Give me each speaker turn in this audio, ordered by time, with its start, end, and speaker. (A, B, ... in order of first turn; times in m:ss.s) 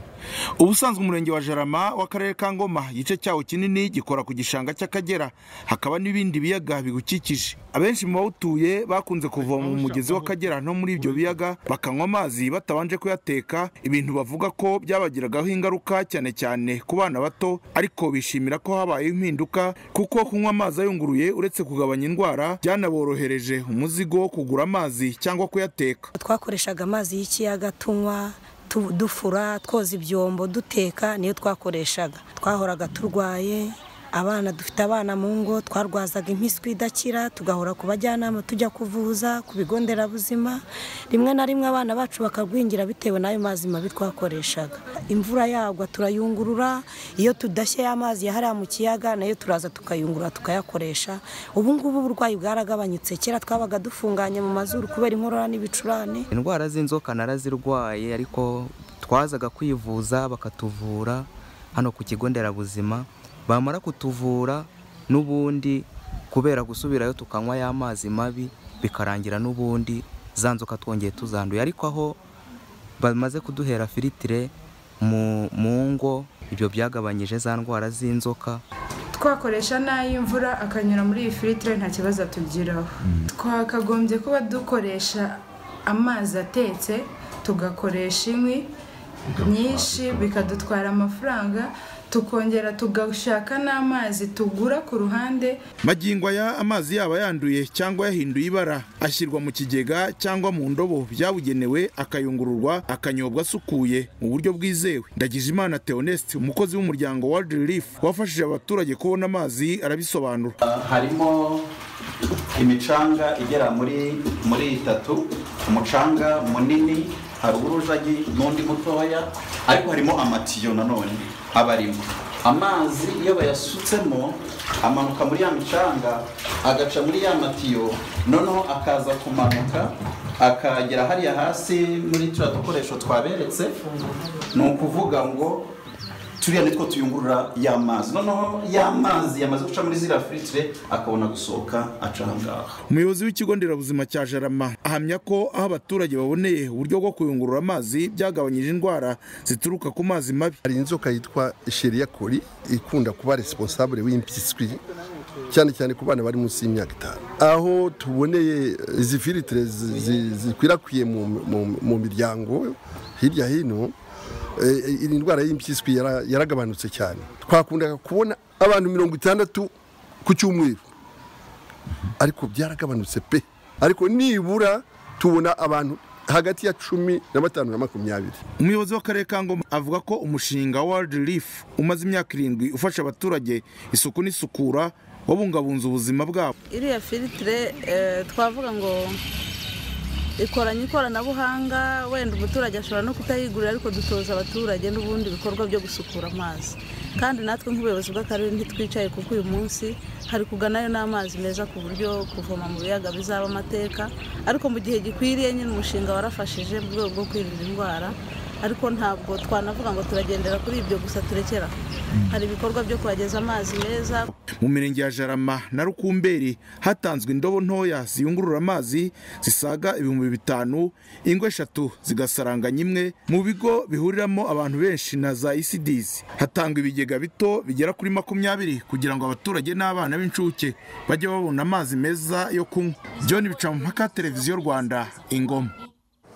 0:00.6-0:26.1 A
0:26.2-0:56.3 B
0:56.3-1:12.2 C
1:13.0-1:18.6 C
1:19.1-1:28.7 D
1:29.3-1:35.6 D
1:35.8-1:50.6 A
1:50.6-1:51.6 E
1:52.6-2:13.8 E
2:14.5-2:15.6 E
2:16.4-2:22.7 E
2:22.9-2:30.6 A
2:30.6-2:34.8 F
2:35.5-2:44.0 F
2:44.6-2:49.7 F
2:50.2-2:50.8 F
2:52.2-2:58.4 F
2:58.6-3:06.5 A
3:06.7-3:09.1 G
3:10.4-3:31.7 G
3:32.3-3:34.3 G
3:34.6-3:55.7 A